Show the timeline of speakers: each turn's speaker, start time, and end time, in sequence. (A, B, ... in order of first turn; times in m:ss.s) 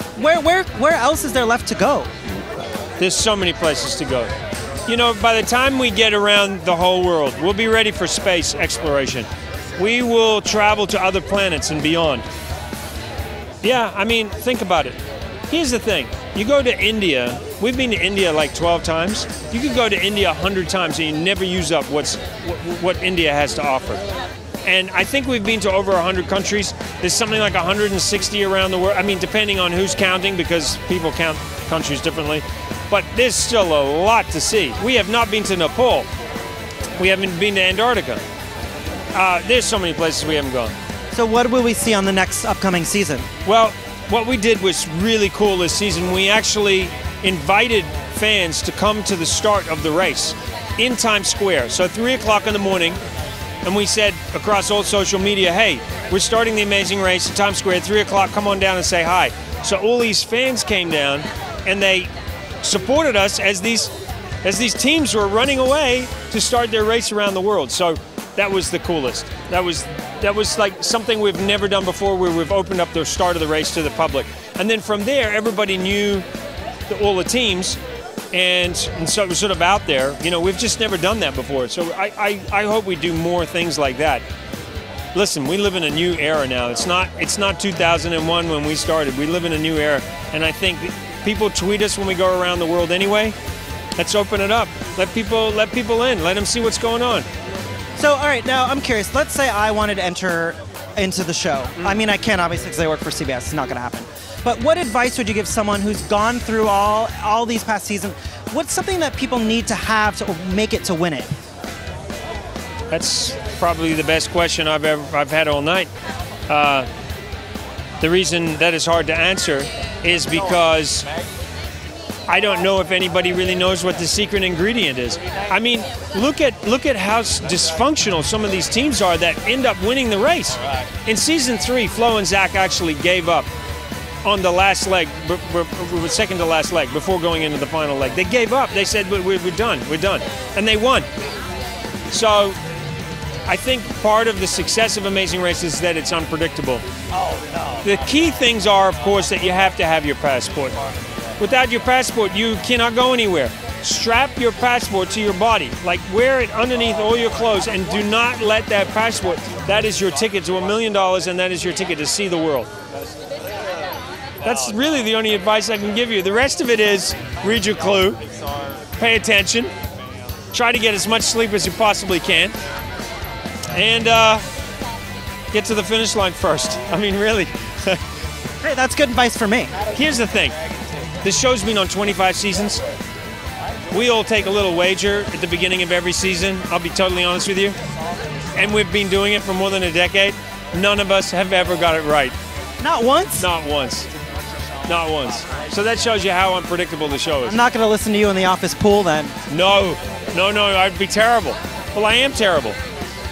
0:00.2-0:02.1 A
0:03.0-0:04.3 B
0:04.9-0:12.2 B
0:13.6-0:15.0 B
0:15.5-0:24.0 B
0:24.6-0:36.1 B
0:37.0-0:38.2 B
0:39.1-0:40.7 B
0:41.1-0:43.3 A
0:43.4-0:53.0 B
0:53.6-1:02.1 B
1:02.6-1:03.9 B
1:04.4-1:16.2 B
1:16.9-1:17.8 B
1:18.3-1:24.2 B
1:25.1-1:33.3 B
1:34.0-1:37.3 B
1:38.0-1:51.3 A
1:52.9-1:55.9 B
1:56.5-1:56.9 B
1:58.0-2:01.1 B
2:02.3-2:13.5 B
2:14.2-2:21.1 B
2:22.1-2:22.6 B
2:23.4-2:26.8 B
2:27.8-2:30.8 B
2:31.4-2:42.7 B
2:44.4-2:48.2 B
2:49.0-2:49.7 B
2:50.5-2:52.6 B
2:53.7-2:54.4 B
2:55.5-2:58.0 B
2:58.6-2:59.8 A
2:59.9-3:00.5 B
3:01.2-3:02.8 B
3:03.9-3:07.8 B
3:08.5-3:12.4 B
3:12.8-3:13.5 A
3:13.4-3:14.1 B
3:14.8-3:17.6 B
3:17.4-3:19.3 A
3:19.5-3:22.8 B